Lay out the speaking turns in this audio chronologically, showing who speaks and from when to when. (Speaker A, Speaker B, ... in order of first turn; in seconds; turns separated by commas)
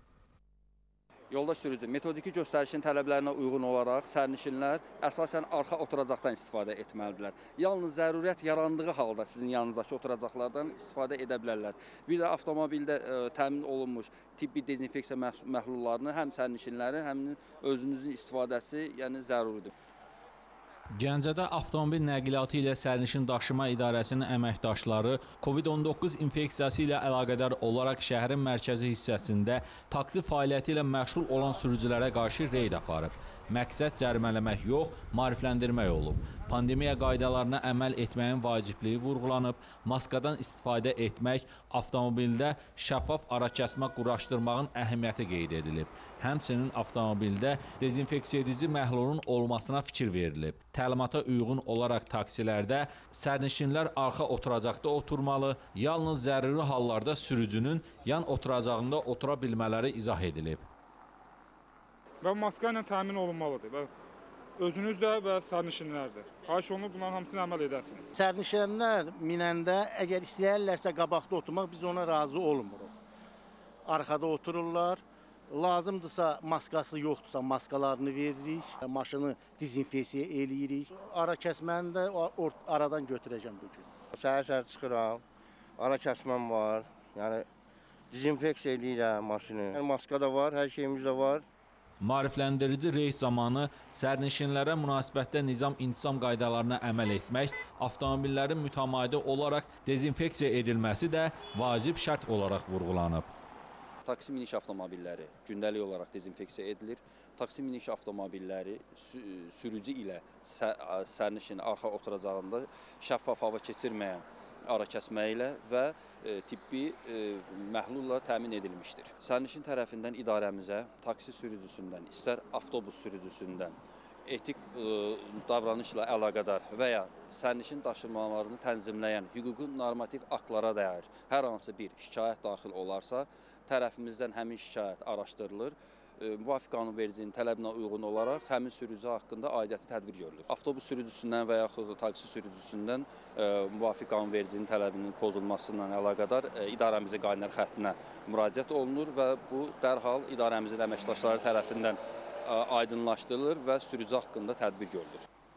Speaker A: 1.3-19.7, Speaker B: 21.0-60.6, Speaker C: 62.2-63.9, Speaker C: 64.6-68.1, Speaker D: 68.2-72.9, Speaker D: 73.8-83.9, Speaker E: 84.1-85.2, Speaker E: 85.8-87.5, Speaker E: 88.1-91.5, Speaker B: 92.0-103.3, Speaker A: 104.0-155.2